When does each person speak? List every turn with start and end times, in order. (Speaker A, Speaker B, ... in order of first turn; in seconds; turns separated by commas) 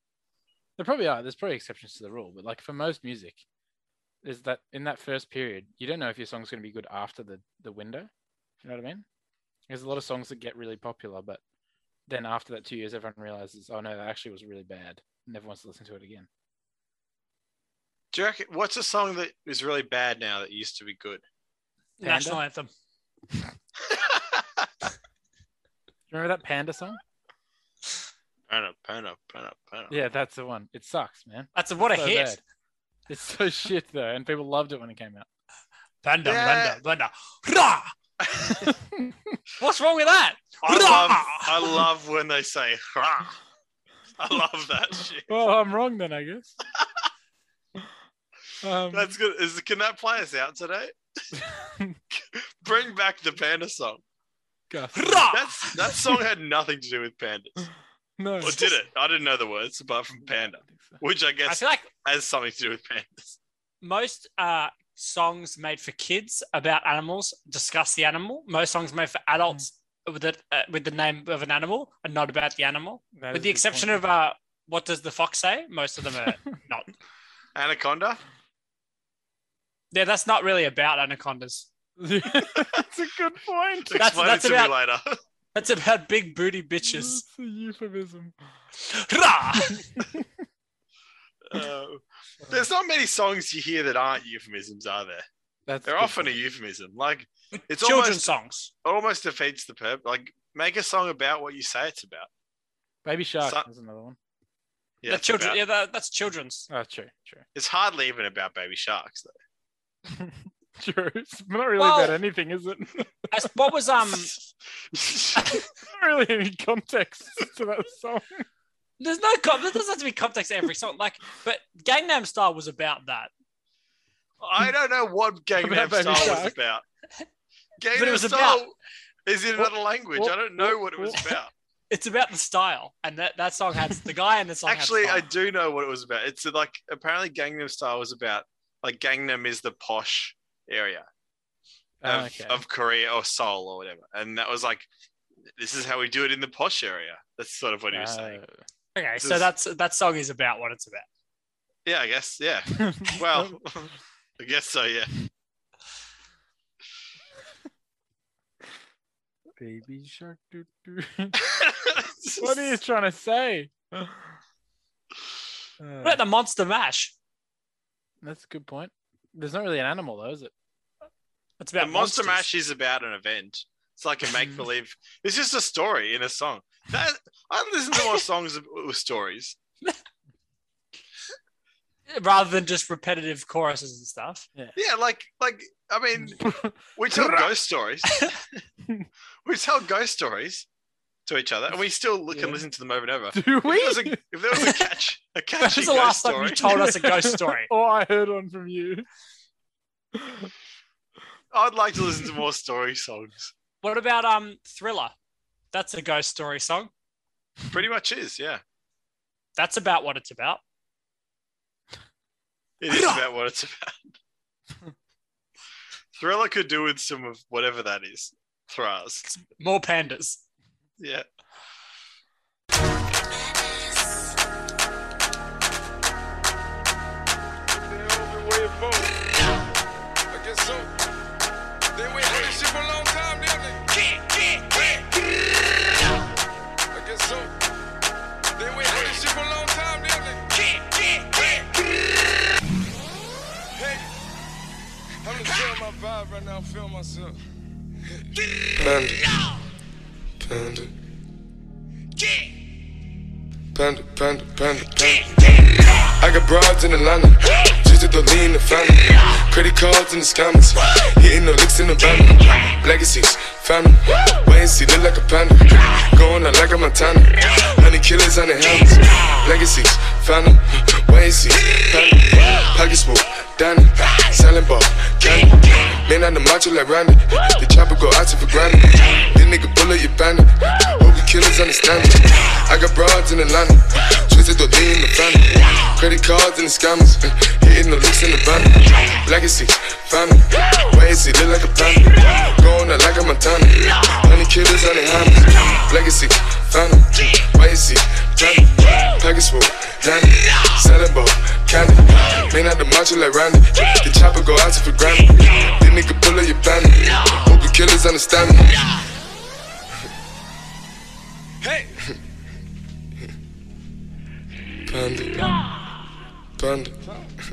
Speaker A: 0.8-3.4, Speaker A: 4.2-9.0, Speaker A: 9.7-11.4, Speaker A: 12.1-16.3, Speaker B: 18.1-21.2, Speaker C: 22.0-22.7, Speaker A: 22.0-22.4, Speaker B: 23.9-24.7, Speaker A: 26.1-27.0, Speaker B: 28.5-29.9, Speaker A: 29.9-32.4, Speaker C: 31.5-32.4, Speaker A: 33.1-35.2, Speaker C: 36.0-37.9, Speaker B: 36.2-36.8, Speaker B: 38.2-38.7, Speaker A: 38.5-39.4, Speaker C: 39.6-41.8, Speaker B: 40.6-43.4, Speaker B: 44.2-45.3, Speaker A: 45.3-46.6, Speaker A: 48.6-49.1, Speaker B: 48.9-50.9, Speaker A: 51.3-52.0, Speaker B: 52.1-54.0, Speaker A: 54.7-55.3, Speaker C: 54.9-55.9, Speaker B: 55.3-57.7, Speaker A: 58.2-58.6, Speaker B: 58.4-63.4, Speaker C: 58.4-58.7, Speaker A: 60.3-61.0, Speaker C: 61.5-61.9, Speaker C: 63.8-76.9, Speaker A: 73.1-74.0, Speaker B: 77.5-78.2, Speaker C: 79.9-81.7, Speaker A: 82.0-84.1, Speaker B: 83.8-85.2, Speaker C: 84.0-84.8, Speaker C: 85.5-87.2, Speaker A: 86.8-88.3, Speaker C: 88.8-89.8, Speaker A: 89.5-90.3, Speaker B: 91.5-95.2, Speaker A: 95.7-96.4, Speaker B: 95.8-98.3, Speaker C: 97.7-98.7, Speaker B: 98.8-102.3, Speaker A: 103.0-104.2, Speaker B: 105.0-105.6, Speaker C: 105.1-106.7, Speaker A: 106.7-107.4, Speaker B: 107.5-109.3, Speaker A: 110.1-113.7, Speaker C: 111.8-112.2, Speaker C: 113.3-114.3, Speaker B: 114.9-115.6, Speaker A: 115.4-118.5, Speaker C: 119.0-123.3, Speaker B: 124.4-126.8, Speaker A: 125.6-126.6, Speaker B: 127.8-128.7, Speaker C: 127.9-128.6, Speaker B: 129.2-131.5, Speaker A: 129.6-131.3, Speaker C: 131.9-135.3, Speaker B: 134.7-141.1, Speaker A: 142.0-142.6, Speaker B: 142.0-144.9, Speaker B: 145.6-148.4, Speaker A: 147.9-148.6, Speaker C: 148.9-151.1, Speaker B: 149.2-149.5, Speaker B: 151.8-155.1, Speaker A: 152.8-153.5, Speaker A: 159.6-161.4, Speaker B: 161.4-162.7, Speaker A: 162.4-164.3, Speaker A: 165.8-166.2, Speaker C: 166.0-167.1, Speaker A: 168.2-170.5, Speaker C: 171.6-172.4, Speaker B: 171.8-179.6, Speaker A: 174.3-174.6, Speaker C: 182.1-184.5, Speaker B: 184.7-188.2, Speaker A: 186.1-187.4, Speaker C: 188.0-188.3, Speaker B: 189.4-190.7, Speaker B: 191.2-196.7, Speaker A: 192.3-192.6, Speaker A: 193.3-194.7, Speaker C: 195.6-197.7, Speaker A: 196.6-199.0, Speaker A: 200.1-200.5, Speaker B: 201.5-203.5, Speaker C: 203.8-205.1, Speaker C: 205.7-206.9, Speaker B: 207.7-208.6, Speaker C: 209.6-210.6, Speaker B: 212.8-214.2, Speaker C: 212.9-213.2, Speaker B: 216.2-219.2, Speaker C: 219.2-220.4, Speaker B: 221.0-221.2, Speaker D: 232.5-232.8, Speaker D: 245.4-246.5, Speaker D: 248.7-249.3, Speaker D: 250.4-250.9, Speaker D: 253.7-255.5, Speaker D: 256.2-308.8, Speaker D: 311.7-312.1, Speaker D: 314.9-315.6, Speaker D: 316.6-317.1